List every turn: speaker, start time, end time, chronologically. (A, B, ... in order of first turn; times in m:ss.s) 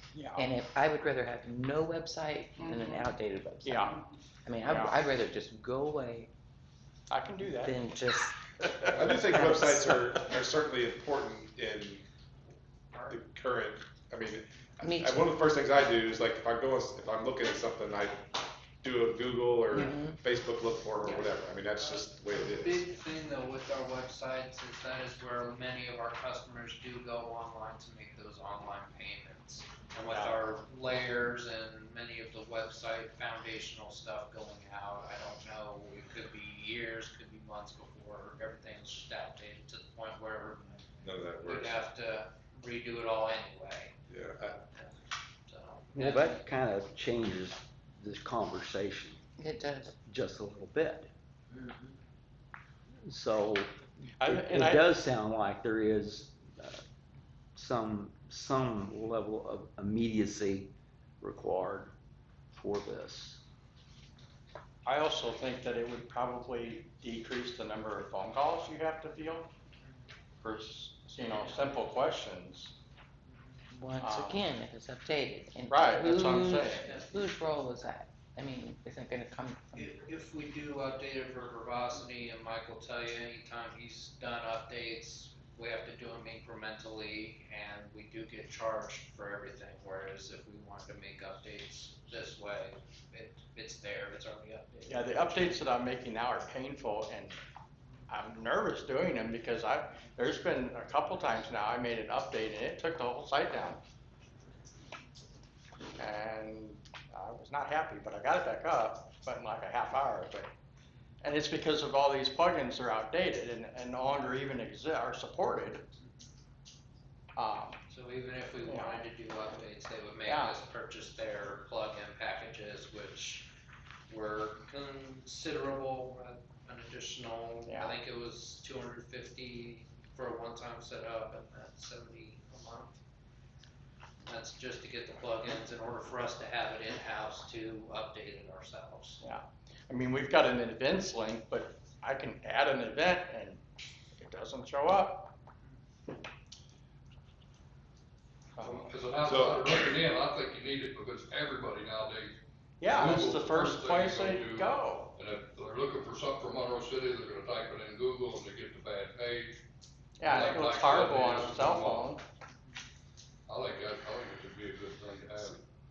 0:00.1-0:00.5 A
0:00.3-0:06.3 B
0:02.6-0:03.0 A
0:03.6-0:04.0 A
0:04.6-0:05.0 A
0:07.1-0:07.8 A
0:07.4-0:10.1 B
0:08.6-0:09.2 A
0:08.9-0:12.0 C
0:13.1-0:18.2 C
0:14.8-0:15.3 B
0:18.8-0:22.8 C
0:19.7-0:20.2 B
0:21.8-0:40.8 D
0:30.0-0:30.4 A
0:41.0-0:41.8 C
0:41.4-0:44.0 D
0:44.1-0:44.6 C
0:45.5-0:46.4 D
0:45.9-0:49.2 E
0:49.4-0:49.9 B
0:50.1-0:51.1 E
0:53.0-0:56.8 E
0:54.2-0:54.9 A
0:57.6-1:01.9 E
1:02.5-1:03.4 E
1:04.8-1:09.5 A
1:10.4-1:12.7 A
1:13.7-1:20.0 B
1:14.0-1:14.4 A
1:15.7-1:16.9 A
1:19.7-1:35.6 D
1:34.9-1:37.4 A
1:38.1-1:43.8 A
1:46.0-1:50.5 A
1:51.2-1:55.9 A
1:57.4-1:57.8 A
1:57.9-2:03.5 D
1:58.6-1:59.1 A
2:00.2-2:00.6 A
2:04.1-2:13.0 D
2:07.6-2:08.0 A
2:14.2-2:19.2 D
2:19.2-2:23.6 A
2:24.2-2:25.4 A
2:28.6-2:28.9 A
2:28.6-2:39.5 F
2:29.2-2:29.8 C
2:32.8-2:35.1 A
2:40.2-2:42.2 A
2:40.2-2:42.1 F
2:43.5-2:45.6 F